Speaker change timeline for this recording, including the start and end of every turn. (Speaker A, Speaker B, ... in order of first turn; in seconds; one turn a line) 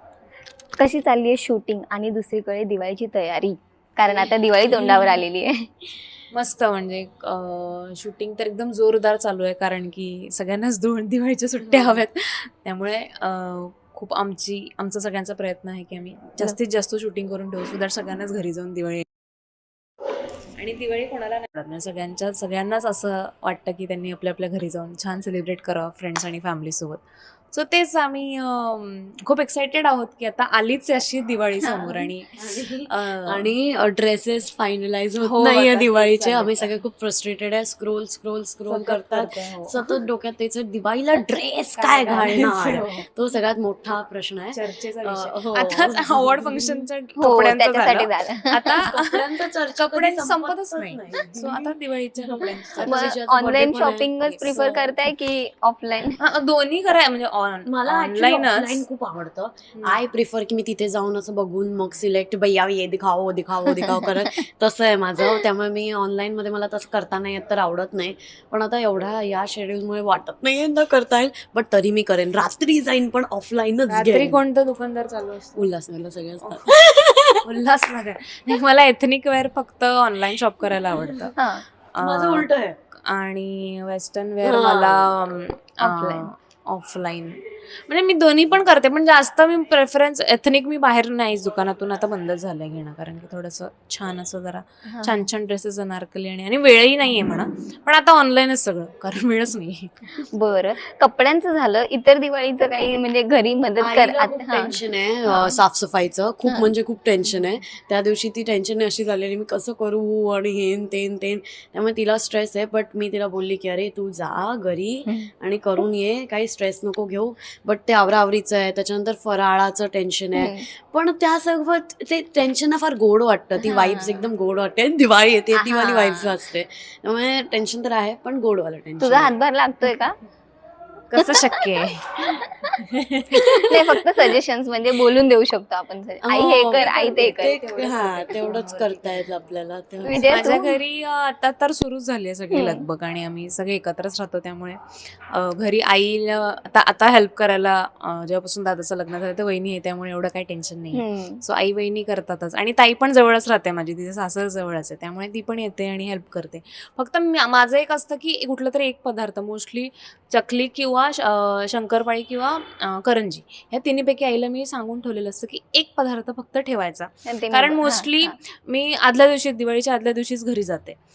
Speaker A: 0.8-5.7
Speaker B: 4.7-5.2
Speaker B: 6.3-19.0
Speaker C: 11.6-12.0
Speaker B: 20.6-33.5
Speaker A: 31.6-32.1
Speaker C: 32.4-46.8
Speaker B: 35.2-36.7
Speaker B: 38.7-39.8
Speaker B: 41.8-43.0
Speaker B: 44.5-49.2
Speaker A: 47.2-48.8
Speaker C: 48.8-54.9
Speaker B: 49.7-53.2
Speaker A: 52.8-56.2
Speaker B: 54.2-54.8
Speaker B: 56.2-58.8
Speaker C: 57.7-74.4
Speaker A: 63.8-64.3
Speaker B: 73.9-75.6
Speaker C: 75.5-77.4
Speaker B: 76.4-76.7
Speaker B: 77.4-81.3
Speaker C: 80.9-81.2
Speaker A: 81.4-81.6
Speaker B: 81.9-100.1
Speaker C: 82.0-82.8
Speaker C: 84.4-85.1
Speaker A: 85.8-86.3
Speaker A: 94.9-95.3
Speaker A: 100.3-104.7
Speaker C: 103.8-129.3
Speaker A: 106.4-106.7
Speaker A: 120.3-120.6
Speaker A: 123.6-124.2
Speaker A: 125.6-126.3
Speaker A: 129.0-130.2
Speaker B: 131.1-134.0
Speaker A: 131.2-131.6
Speaker A: 132.3-132.7
Speaker A: 133.3-137.6
Speaker C: 136.2-140.2
Speaker B: 136.7-139.4
Speaker A: 140.0-140.8
Speaker B: 140.2-144.8
Speaker A: 142.5-142.8
Speaker B: 145.3-171.0
Speaker A: 150.9-151.4
Speaker A: 167.3-168.3